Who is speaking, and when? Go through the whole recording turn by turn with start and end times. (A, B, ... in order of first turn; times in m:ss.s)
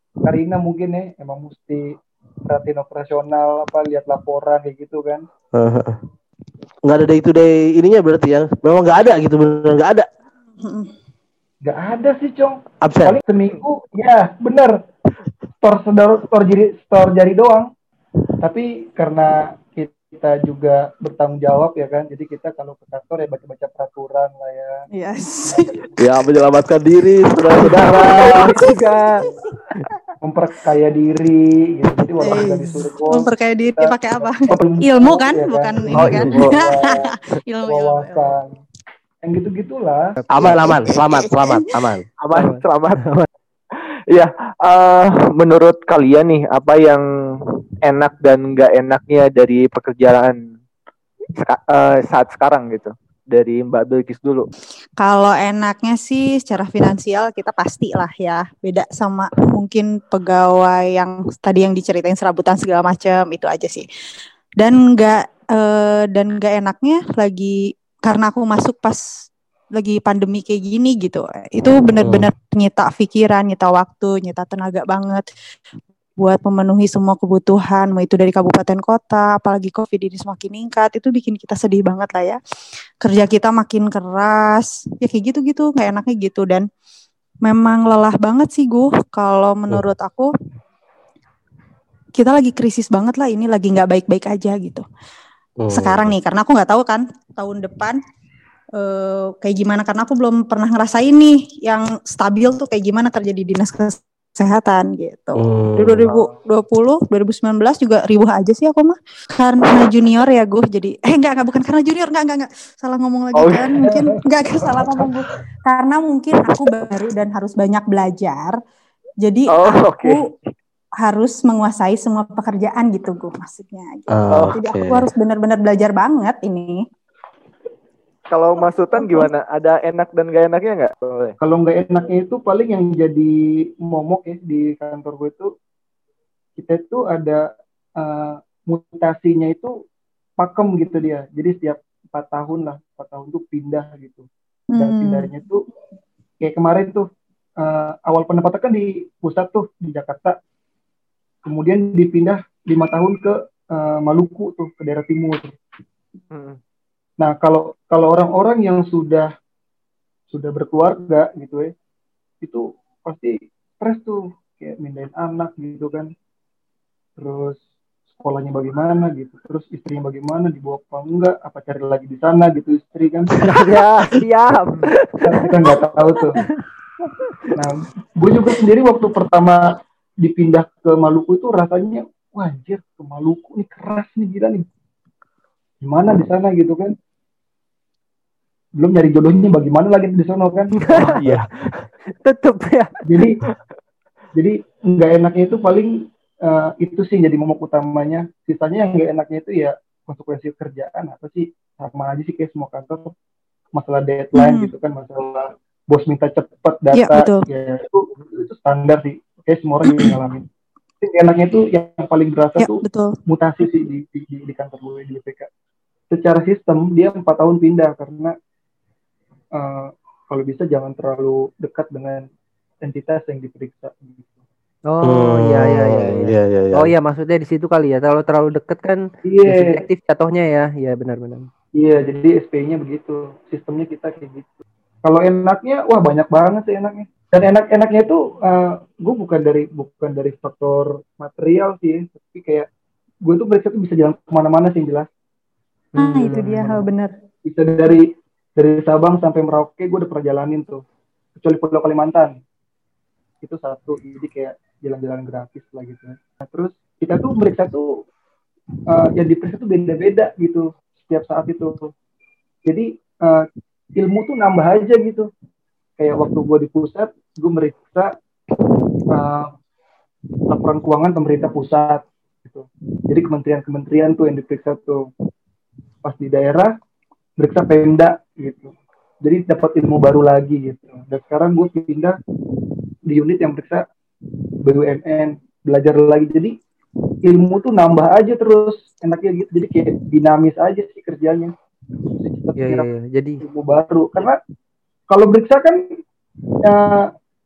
0:00.2-0:05.2 A
0:05.5-0:06.0 B
0:06.8-0:10.1 B
0:10.6-0:10.9 C
0:11.6-0:14.8 A
0:12.8-0:13.2 B
0:15.6-0:17.7 A
0:18.4-0:24.8 A
0:24.9-0:25.8 C
0:26.0-0:28.6 B
0:27.7-0:28.8 A
0:27.8-0:29.4 C
0:28.5-0:29.0 D
0:30.2-0:38.6 A
0:32.2-0:38.3 C
0:36.0-0:36.5 E
0:39.2-0:40.0 A
0:40.2-0:40.6 D
0:40.3-0:42.0 B
0:40.6-0:41.7 C
0:42.2-0:43.0 E
0:42.3-0:43.3 D
0:44.1-0:47.0 E
0:47.9-0:50.4 E
0:51.4-0:54.5 E
0:55.0-1:03.8 C
1:04.6-1:09.0 C
1:09.8-1:15.2 C
1:12.0-1:12.3 B
1:16.2-1:22.4 C
1:23.0-1:26.6 C
1:27.4-1:30.3 C
1:32.1-1:34.8 C
1:35.6-1:36.1 B
1:35.7-1:38.0 C
1:38.8-1:58.6 C
1:45.4-1:46.1 B
1:53.3-1:54.0 E
1:59.2-2:00.3 C
1:59.5-2:00.2 E
2:01.0-2:06.8 C
2:04.1-2:05.1 B
2:04.3-2:04.6 E
2:08.3-2:11.4 E
2:08.9-2:09.3 C
2:11.4-2:15.5 A
2:16.6-2:17.5 A
2:18.0-2:19.7 A
2:20.4-2:25.6 A
2:24.7-2:25.3 C
2:26.4-2:27.0 A
2:27.6-2:30.3 A
2:31.4-2:35.5 A
2:36.3-2:36.6 E
2:37.2-2:39.3 A
2:40.3-2:41.7 A
2:42.4-2:46.1 A
2:47.2-2:47.6 A
2:48.1-2:53.5 A
2:53.4-2:55.6 D
2:55.2-2:56.4 A
2:57.5-2:59.6 A
3:00.2-3:04.7 A
3:05.8-3:07.0 A
3:08.8-3:10.8 A
3:10.8-3:11.2 D
3:11.0-3:11.4 E
3:12.2-3:13.0 D
3:13.0-3:13.4 A
3:14.3-3:23.1 A
3:23.7-3:30.4 A
3:24.4-3:24.7 C
3:26.9-3:27.4 C
3:29.8-3:30.2 C
3:31.0-3:35.5 A
3:32.6-3:33.2 C
3:36.1-3:38.3 A
3:39.5-3:42.2 A
3:42.8-3:44.4 A
3:44.9-3:51.5 D
3:45.0-3:46.9 B
3:49.2-3:49.8 A
3:51.8-4:02.7 A
4:03.2-4:05.1 A
4:05.9-4:06.9 D
4:06.0-4:07.1 C
4:07.4-4:10.8 A
4:11.4-4:12.4 A
4:13.4-4:17.9 A
4:18.9-4:21.9 A
4:22.6-4:23.5 A
4:24.0-4:25.3 A
4:26.0-4:28.1 A
4:29.1-4:29.5 A
4:30.5-4:35.1 A
4:36.0-4:36.7 A
4:37.4-4:42.2 A
4:43.1-4:43.8 A
4:44.6-4:46.6 A
4:47.2-4:51.5 A
4:52.1-4:52.9 A
4:52.6-4:53.4 D
4:53.4-4:54.4 A
4:55.1-4:55.9 A
4:56.6-4:57.1 A